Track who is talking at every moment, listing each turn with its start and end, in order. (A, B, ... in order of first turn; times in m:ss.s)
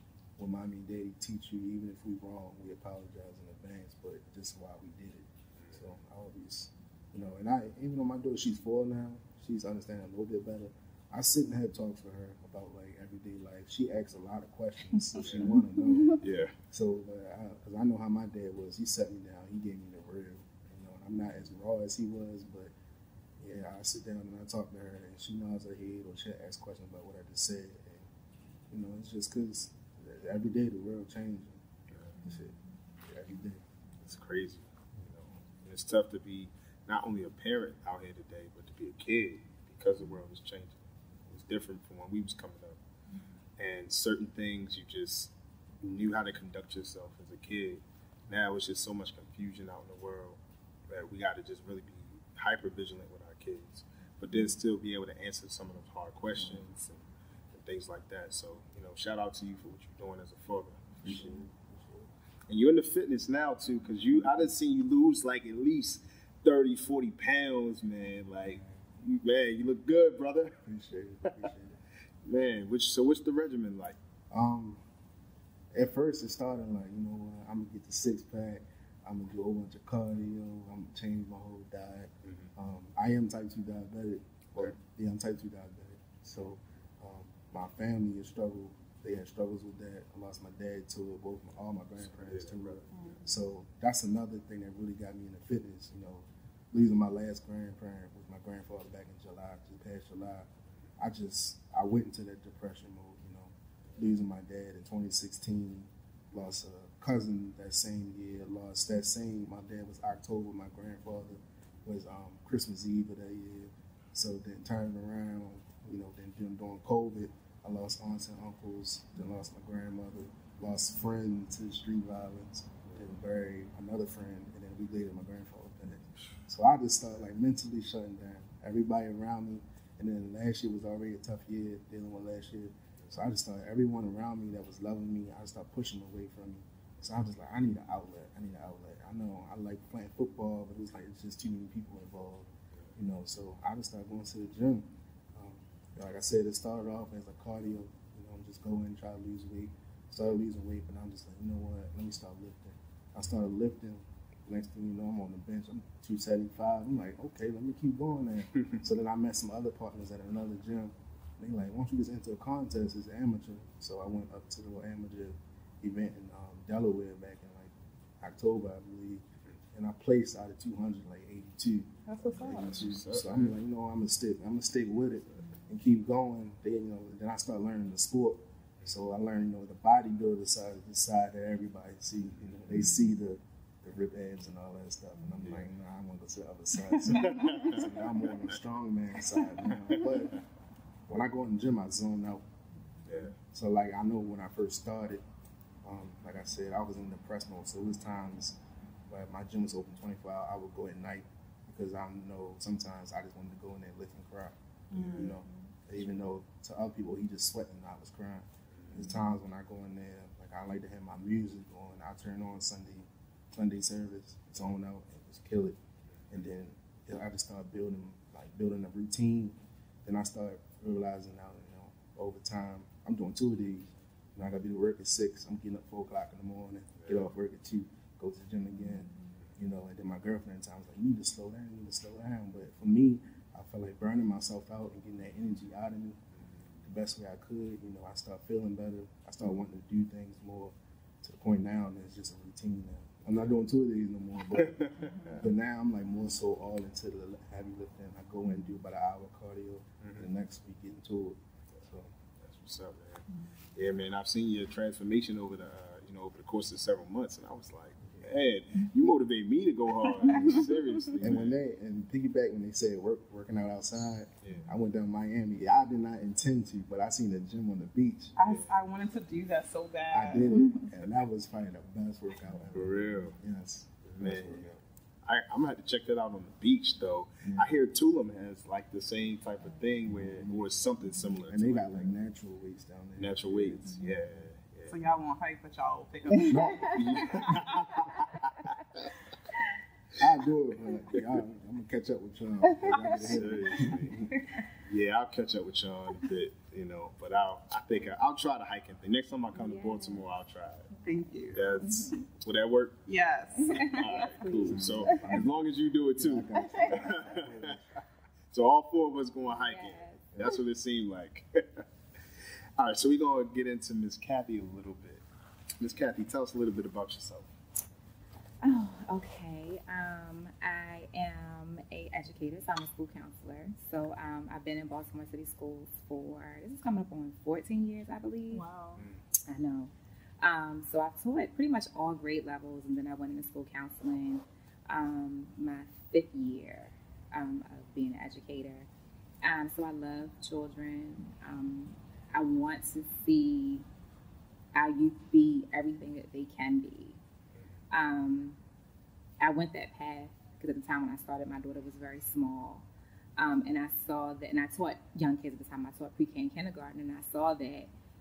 0:00.4-0:22.7 A
0:15.2-0:15.6 B
0:15.9-0:16.2 C
0:16.2-0:16.6 B
0:23.4-0:28.1 A
0:28.7-0:31.6 A
0:31.9-0:32.2 B
0:32.2-0:32.5 A
0:33.1-0:33.6 A
0:34.0-0:42.8 B
0:43.6-1:01.4 B
1:01.0-1:02.1 A
1:02.5-1:10.6 B
1:10.6-1:11.8 A
1:12.2-1:14.0 B
1:14.3-1:14.8 A
1:15.7-3:10.4 A
1:22.2-1:22.5 B
1:32.2-1:33.2 B
2:52.1-2:52.8 D
2:52.5-2:53.5 B
3:07.1-3:07.8 B
3:07.1-3:07.5 D
3:11.1-3:12.4 A
3:13.1-3:13.4 B
3:13.5-3:15.2 A
3:15.8-3:18.6 A
3:19.1-3:35.8 A
3:24.9-3:25.4 D
3:28.8-3:29.0 B
3:36.3-3:56.2 A
3:56.8-4:12.1 A
4:04.5-4:05.4 B
4:10.0-4:10.3 B
4:12.4-4:21.6 B
4:20.2-4:20.6 A
4:21.2-4:28.3 A
4:28.4-4:30.6 D
4:28.4-4:28.8 B
4:30.1-4:34.8 A
4:30.6-4:30.8 C
4:32.7-4:33.4 B
4:34.1-4:42.1 B
4:40.1-4:40.5 A
4:41.5-4:44.1 A
4:43.2-4:45.0 B
4:44.9-4:47.6 D
4:46.3-4:47.5 C
4:46.5-4:47.3 A
4:46.5-4:49.2 B
4:50.2-4:54.4 A
4:52.6-4:54.6 C
4:52.9-5:00.9 B
4:59.6-5:00.2 C
5:01.0-5:02.1 D
5:01.5-5:03.0 B
5:01.8-5:02.2 C
5:03.1-5:04.4 D
5:03.6-5:05.3 C
5:03.7-5:07.8 B
5:04.5-5:05.6 A
5:06.2-5:08.0 A
5:08.5-5:11.9 B
5:09.5-5:10.5 C
5:12.8-5:15.2 B
5:15.8-5:17.5 B
5:18.6-5:28.6 C
5:28.5-5:29.1 D
5:29.0-5:29.2 B
5:29.5-5:38.9 C
5:39.4-5:43.8 C
5:44.7-5:47.2 C
5:47.9-5:48.6 C
5:49.4-5:52.9 C
5:53.4-5:57.9 C